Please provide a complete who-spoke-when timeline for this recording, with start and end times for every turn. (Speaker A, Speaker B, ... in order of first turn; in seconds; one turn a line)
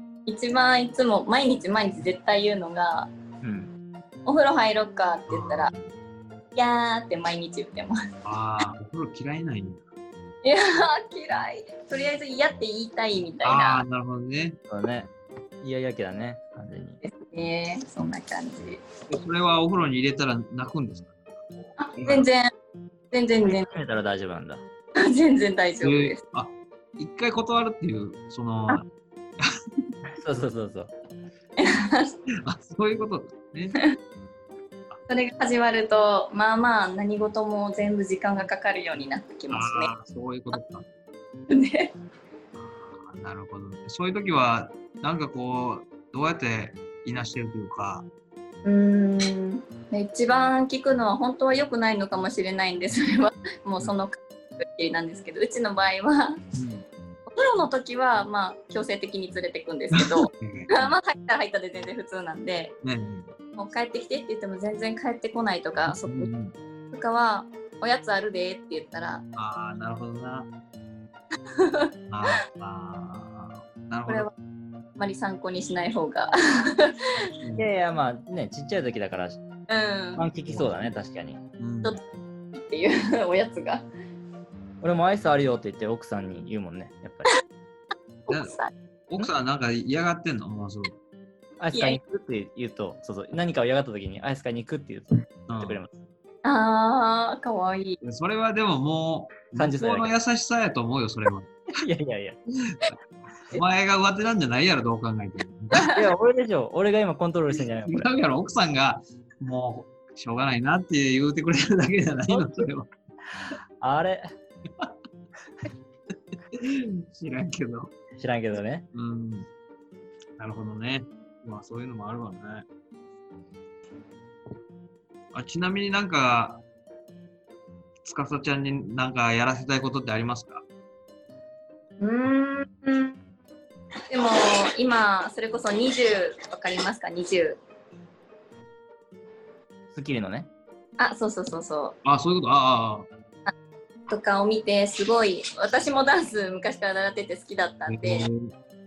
Speaker A: 0.3-3.1
Speaker B: 3.4-3.7
Speaker A: 4.2-5.7
Speaker C: 5.3-5.9
Speaker A: 6.5-8.0
Speaker C: 8.2-9.8
Speaker A: 10.4-13.8
Speaker C: 13.4-14.6
Speaker B: 14.7-15.1
Speaker B: 15.6-17.0
Speaker A: 17.0-18.8
Speaker C: 19.1-22.2
Speaker A: 21.8-22.5
Speaker A: 23.1-23.7
Speaker B: 23.4-24.6
Speaker A: 24.9-26.2
Speaker C: 25.8-28.9
Speaker B: 30.1-30.9
Speaker A: 31.6-32.2
Speaker C: 32.4-33.8
Speaker A: 35.1-39.9
Speaker C: 39.5-40.9
Speaker A: 41.5-41.9
Speaker C: 42.8-48.1
Speaker A: 48.6-56.4
Speaker C: 56.5-56.9
Speaker A: 57.3-62.7
Speaker C: 59.9-60.9
Speaker C: 62.8-63.3
Speaker A: 63.5-66.3
Speaker C: 65.8-66.5
Speaker A: 66.9-69.2
Speaker C: 69.3-70.5
Speaker A: 71.5-72.3
Speaker C: 72.1-74.3
Speaker A: 74.1-74.3
Speaker A: 75.0-77.2
Speaker C: 77.4-77.7
Speaker B: 77.6-79.4
Speaker A: 79.7-80.3
Speaker B: 80.2-81.4
Speaker C: 81.6-82.0
Speaker A: 82.5-83.8
Speaker B: 84.8-87.3
Speaker A: 88.3-88.7
Speaker C: 88.3-88.5
Speaker C: 89.1-91.0
Speaker B: 91.6-95.9
Speaker A: 91.7-92.0
Speaker C: 95.5-95.8
Speaker A: 96.4-98.0
Speaker C: 98.0-101.5
Speaker B: 99.5-100.1
Speaker B: 101.8-102.4
Speaker C: 102.6-102.9
Speaker C: 103.5-105.9
Speaker B: 105.9-108.1
Speaker C: 107.8-112.9
Speaker B: 112.3-112.7
Speaker B: 113.8-114.3
Speaker C: 116.5-117.9
Speaker B: 118.1-118.8
Speaker C: 118.9-119.5
Speaker C: 120.4-122.7
Speaker C: 125.3-126.6
Speaker C: 128.0-130.6
Speaker A: 132.0-133.2
Speaker A: 134.1-137.6
Speaker B: 139.9-140.5
Speaker A: 141.0-142.0
Speaker C: 142.0-143.1
Speaker A: 144.1-148.3
Speaker C: 147.9-148.5